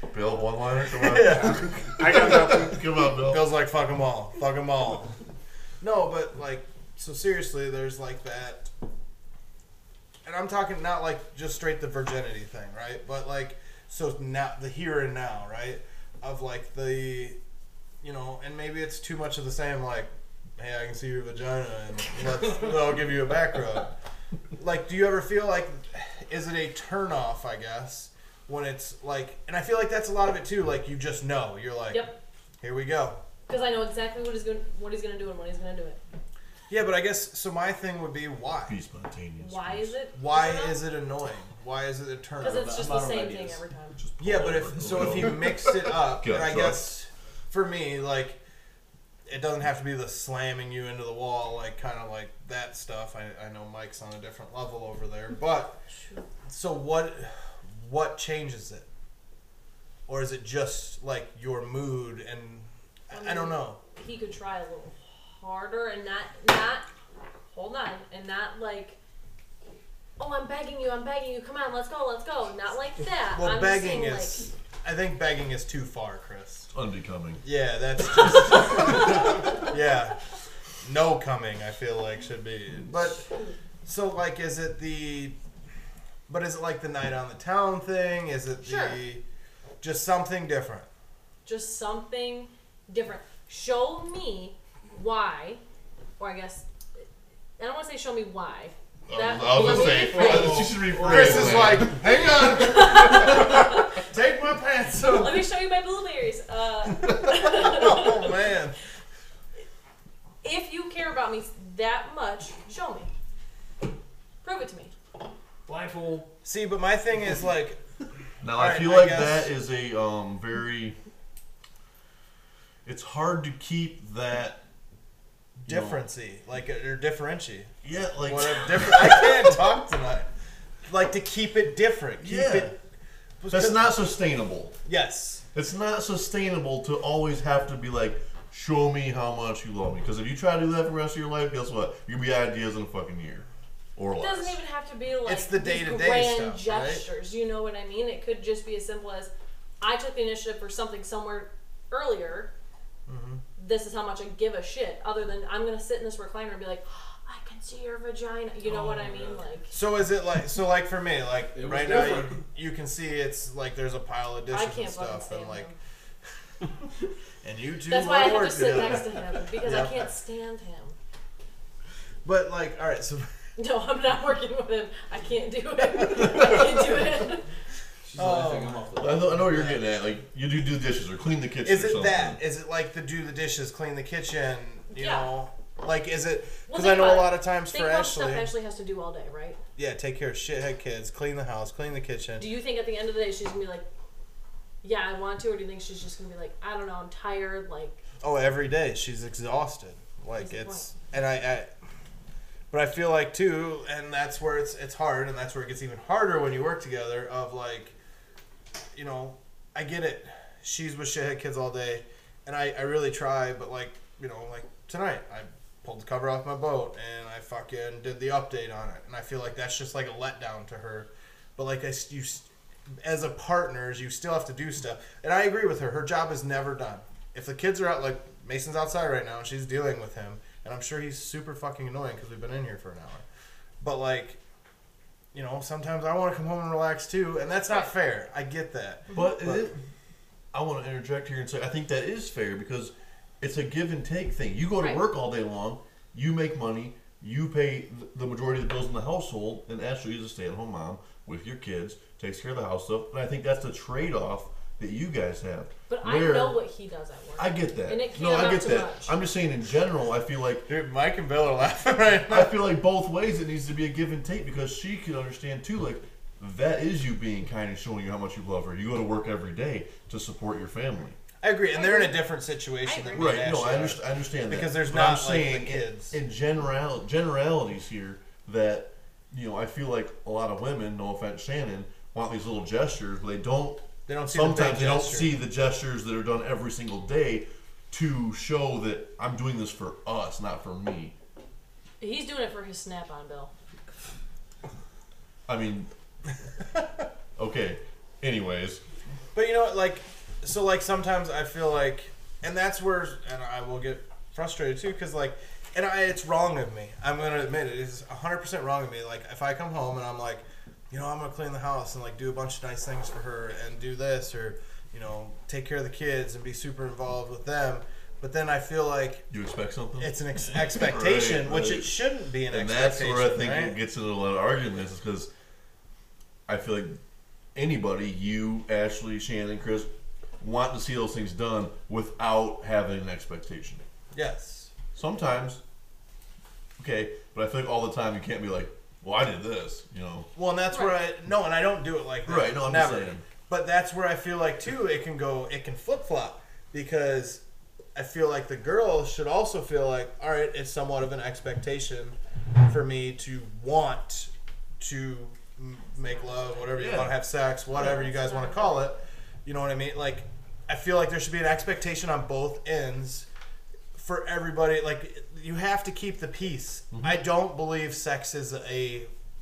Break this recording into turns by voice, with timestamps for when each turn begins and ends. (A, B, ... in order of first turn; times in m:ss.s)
0:00.1-0:03.4 A
0:00.9-0:05.1 B
0:05.8-0:08.7 B
0:10.2-0:17.4 B
0:18.0-0:23.9 B
0:24.6-0:33.2 B
0:31.9-0:32.2 C
0:33.5-0:36.0 C
0:36.7-0:38.8 B
0:38.7-0:40.0 A
0:39.4-0:40.8 C
0:40.1-0:42.9 B
0:42.4-0:43.6 D
0:42.4-0:44.0 C
0:44.0-0:46.9 A
0:44.2-0:48.4 B
0:49.3-0:55.8 B
0:56.0-0:56.2 C
0:56.5-0:58.9 B
1:00.1-1:03.8 B
1:03.1-1:06.9 C
1:07.5-1:09.0 C
1:10.2-1:14.5 C
1:13.4-1:16.7 B
1:16.7-1:17.4 A
1:17.4-1:20.2 B
1:20.8-1:23.2 B
1:23.8-1:25.4 B
1:26.3-1:29.2 B
1:28.6-1:29.0 C
1:29.8-1:30.9 B
1:31.4-1:35.6 C
1:36.2-1:37.0 C
1:37.6-1:40.7 C
1:39.1-1:42.0 A
1:39.9-1:40.7 E
1:41.0-1:45.4 B
1:42.6-1:43.6 C
1:45.1-1:48.4 C
1:47.3-1:48.8 B
1:50.4-1:53.1 C
1:54.4-1:54.9 C
1:55.7-1:56.3 E
1:56.4-1:57.8 B
1:58.4-2:01.0 A
1:58.5-1:59.5 B
2:02.8-2:04.6 A
2:05.6-2:06.0 A
2:05.7-2:07.7 B
2:07.8-2:09.6 A
2:08.2-2:10.3 B
2:10.9-2:12.7 B
2:12.2-2:12.7 A
2:13.4-2:14.0 B
2:13.5-2:14.8 A
2:14.9-2:15.4 B
2:15.5-2:24.6 A
2:24.2-2:32.5 C
2:25.2-2:27.1 B
2:33.1-2:33.4 B
2:33.6-2:39.7 C
2:38.7-2:39.4 E
2:39.7-2:45.7 B
2:41.5-2:42.4 D
2:44.5-2:45.8 C
2:47.4-2:50.0 B
2:47.9-2:51.0 C
2:52.2-2:53.3 B
2:53.6-2:57.5 C
2:58.0-2:59.8 D
2:58.2-2:58.8 B
2:59.0-3:02.4 A
3:01.6-3:08.5 B
3:05.0-3:05.3 C
3:06.7-3:09.6 C
3:09.8-3:12.5 B
3:12.4-3:13.9 C
3:14.8-3:18.0 C
3:18.2-3:21.7 B
3:20.4-3:20.9 C
3:22.7-3:27.9 B
3:29.0-3:42.5 B
3:43.0-3:53.2 B
3:53.8-3:54.4 B
3:55.3-3:59.7 B
3:59.1-3:59.8 A
4:00.5-4:16.6 A
4:04.8-4:05.1 C
4:15.9-4:19.1 C
4:17.4-4:20.7 A
4:20.7-4:22.6 B
4:22.3-4:31.2 A
4:31.4-4:36.2 B
4:31.7-4:32.3 C
4:32.8-4:33.8 C
4:33.2-4:51.2 A
4:44.1-4:45.4 B
4:52.0-4:53.5 C
4:55.5-4:55.9 A
4:57.4-4:58.8 A
4:59.3-5:19.3 B
5:19.3-5:22.0 A
5:20.0-5:23.8 B
5:22.5-5:25.3 A
5:26.5-5:27.0 A
5:27.6-5:33.8 A
5:34.1-5:34.7 B
5:35.0-5:35.6 A
5:36.8-5:40.3 A
5:40.4-5:47.4 B
5:42.3-5:43.2 A
5:48.0-6:03.3 B
5:56.0-5:56.7 C
5:56.8-5:57.2 A
5:57.7-5:58.9 C
6:04.0-6:09.1 B
6:06.9-6:07.2 A